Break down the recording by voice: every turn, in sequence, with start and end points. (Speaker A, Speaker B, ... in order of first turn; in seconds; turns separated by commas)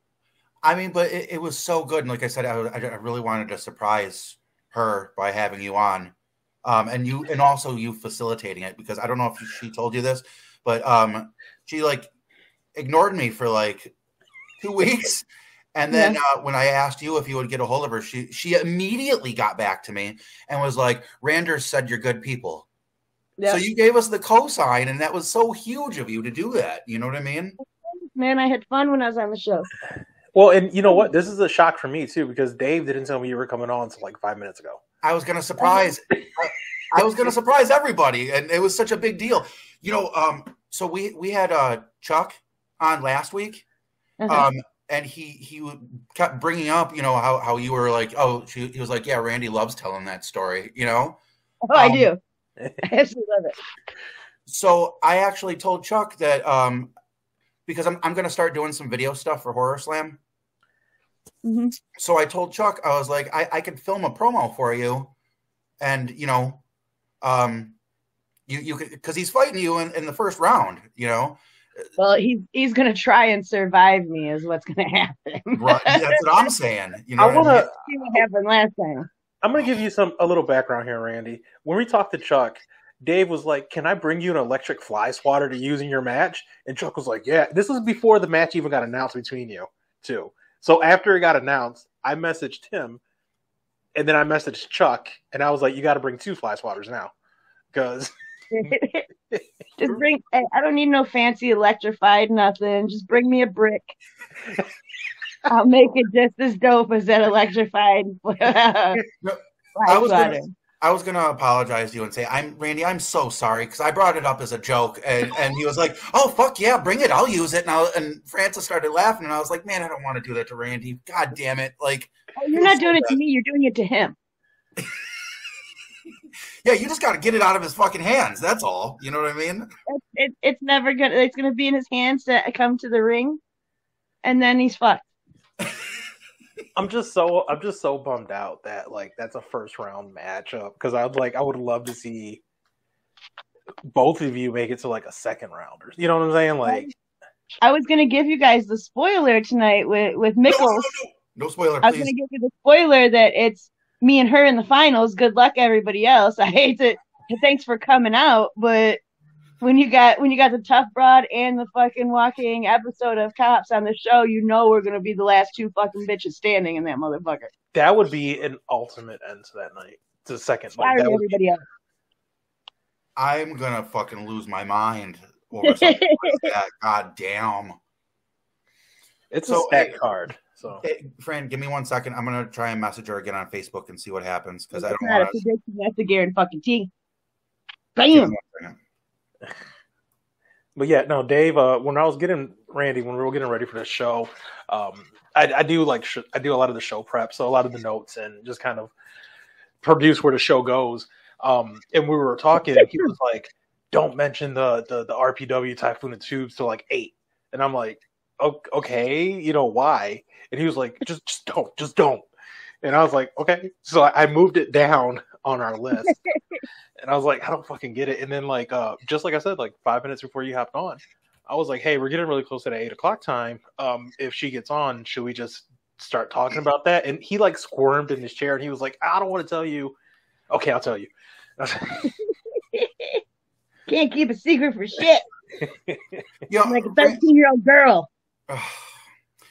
Speaker A: 0.6-12.1, Speaker A: 12.7-13.9, Speaker A: 14.6-22.7, Speaker B: 15.9-16.2, Speaker A: 23.4-27.6, Speaker B: 27.9-29.7, Speaker C: 30.3-34.8, Speaker A: 35.0-43.6, Speaker B: 44.2-44.5, Speaker A: 44.3-51.2, Speaker B: 51.7-52.2, Speaker A: 51.7-52.1, Speaker B: 52.8-53.5, Speaker A: 54.5-56.9, Speaker A: 57.7-60.2, Speaker B: 61.4-61.7, Speaker A: 62.0-65.1, Speaker A: 65.8-66.6, Speaker A: 67.2-67.8, Speaker A: 68.5-71.4, Speaker B: 72.0-76.2, Speaker A: 75.5-77.7, Speaker C: 77.2-77.8, Speaker B: 77.8-79.1, Speaker C: 79.4-93.0, Speaker C: 93.9-97.1, Speaker C: 97.7-98.1, Speaker B: 98.5-99.1, Speaker C: 99.3-100.0, Speaker B: 99.8-103.9, Speaker B: 105.5-109.0, Speaker A: 109.1-123.0, Speaker B: 109.8-110.5, Speaker B: 122.4-124.2, Speaker A: 126.6-129.7, Speaker B: 129.9-133.4, Speaker B: 134.2-135.0, Speaker C: 136.8-142.4, Speaker C: 143.9-146.9, Speaker B: 146.6-146.9, Speaker B: 147.6-150.9, Speaker A: 150.5-152.1, Speaker B: 151.8-159.0, Speaker B: 159.6-167.5, Speaker C: 167.7-171.3, Speaker B: 170.8-171.6, Speaker A: 173.2-177.8, Speaker B: 175.6-176.5, Speaker C: 179.3-180.8, Speaker A: 179.4-179.9, Speaker A: 180.8-185.3, Speaker B: 184.7-186.9, Speaker B: 187.9-188.3, Speaker A: 188.1-188.8, Speaker C: 190.8-198.9, Speaker C: 199.8-212.2, Speaker B: 202.8-203.1, Speaker C: 212.8-216.2, Speaker B: 216.1-216.6, Speaker C: 217.0-230.0, Speaker C: 230.5-232.1, Speaker B: 232.7-233.2, Speaker B: 233.9-235.2, Speaker C: 235.6-236.2, Speaker A: 236.5-237.2, Speaker B: 236.6-238.1, Speaker A: 238.5-238.9